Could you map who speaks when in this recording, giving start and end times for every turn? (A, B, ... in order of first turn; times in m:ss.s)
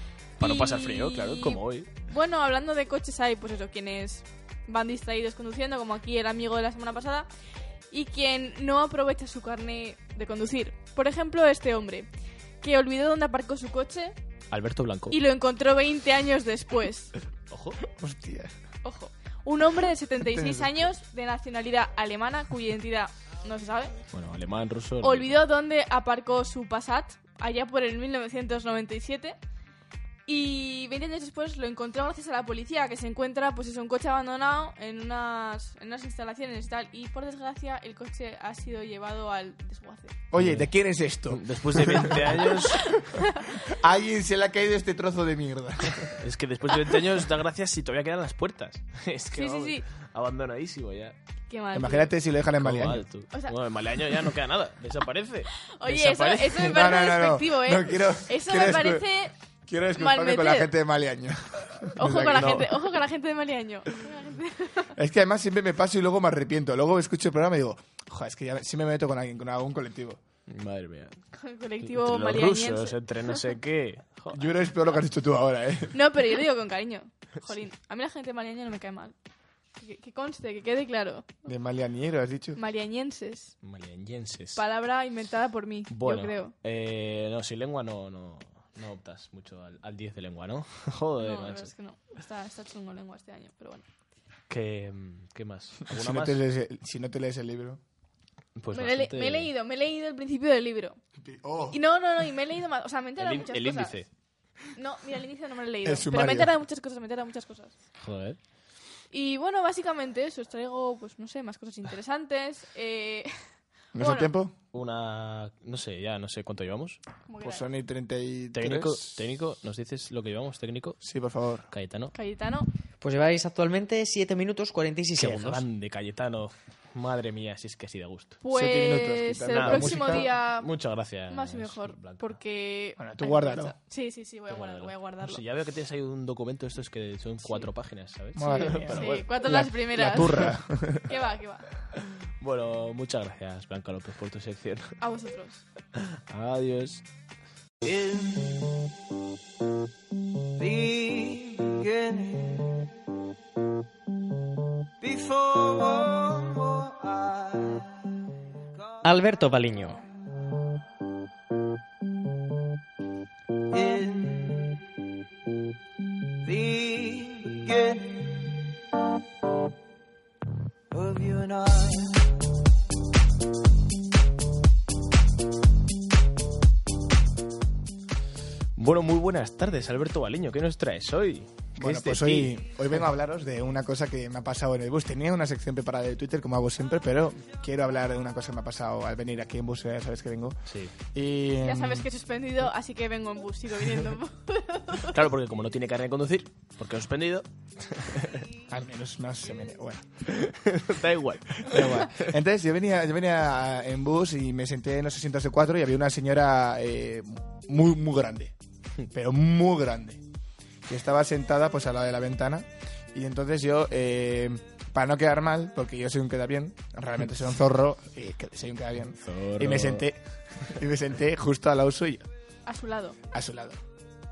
0:00.4-0:01.9 A
0:00.4-0:07.3 B
0:07.9-0:12.1 B
0:12.6-0:14.2 B
0:14.5-0:15.2 A
0:15.1-0:17.1 B
0:17.5-0:17.8 A
0:17.9-0:18.5 C
0:18.8-0:24.0 B
0:20.2-0:20.8 C
0:24.1-0:25.4 A
0:25.0-0:29.4 B
0:30.2-0:40.1 B
0:40.3-0:42.6 C
0:40.4-0:40.7 A
0:41.3-0:43.0 A
0:42.3-0:43.5 B
0:43.5-0:46.2 C
0:45.9-0:51.1 A
0:49.3-0:49.8 B
0:51.5-0:52.1 B
0:51.7-0:53.0 C
0:52.6-0:56.8 A
0:53.3-0:53.6 B
0:55.6-0:59.3 B
0:56.6-0:59.1 C
0:59.6-1:02.6 C
1:00.0-1:00.7 B
1:02.0-1:05.0 B
1:02.0-1:02.8 A
1:05.0-1:10.2 C
1:10.5-1:11.2 A
1:11.3-1:13.4 B
1:11.9-1:14.5 A
1:14.3-1:16.0 C
1:15.9-1:19.1 B
1:19.8-1:21.4 B
1:21.4-1:22.6 C
1:22.6-1:23.5 B
1:23.6-1:24.6 A
1:24.6-1:26.5 B
1:25.9-1:31.7 A
1:31.2-1:33.8 B
1:34.5-1:36.4 A
1:35.9-1:37.8 C
1:38.6-1:39.5 A
1:38.7-1:41.0 B
1:41.2-1:41.8 C
1:41.7-1:44.0 B
1:43.2-1:44.1 A
1:44.7-1:47.7 B
1:45.8-1:46.5 C
1:48.0-1:48.4 A
1:49.1-1:53.3 B
1:53.9-1:54.5 C
1:54.0-1:54.3 B
1:54.7-1:57.0 A
1:57.3-1:57.6 B
1:57.4-1:59.2 C
1:58.5-2:01.0 A
2:01.0-2:01.7 C
2:01.7-2:02.1 A
2:02.1-2:02.7 B
2:03.0-2:05.6 D
2:05.2-2:08.4 A
2:08.4-2:10.7 B
2:08.5-2:10.3 C
2:09.5-2:12.4 A
2:11.3-2:15.4 B
2:13.0-2:13.7 C
2:14.5-2:19.3 A
2:18.4-2:21.1 C
2:18.4-2:21.7 B
2:22.4-2:24.9 A
2:25.0-2:25.6 B
2:25.9-2:27.0 A
2:27.8-2:28.9 E
2:30.6-2:32.9 E
2:35.0-2:37.9 E
2:38.8-2:39.0 E
2:39.0-2:40.0 D
2:43.7-2:44.8 E
2:46.4-2:48.6 E
2:50.9-2:52.3 E
2:58.8-3:02.6 A
3:01.8-3:10.6 C
3:10.7-3:10.9 A
3:11.1-3:12.1 C
3:11.6-3:15.2 B
3:15.0-3:18.4 A
3:18.7-3:20.3 C
3:20.3-3:22.3 A
3:21.6-3:28.5 C
3:29.1-3:30.2 C
3:30.8-3:42.2 C
3:39.1-3:40.1 A
3:42.7-3:43.2 B
3:43.3-3:43.8 C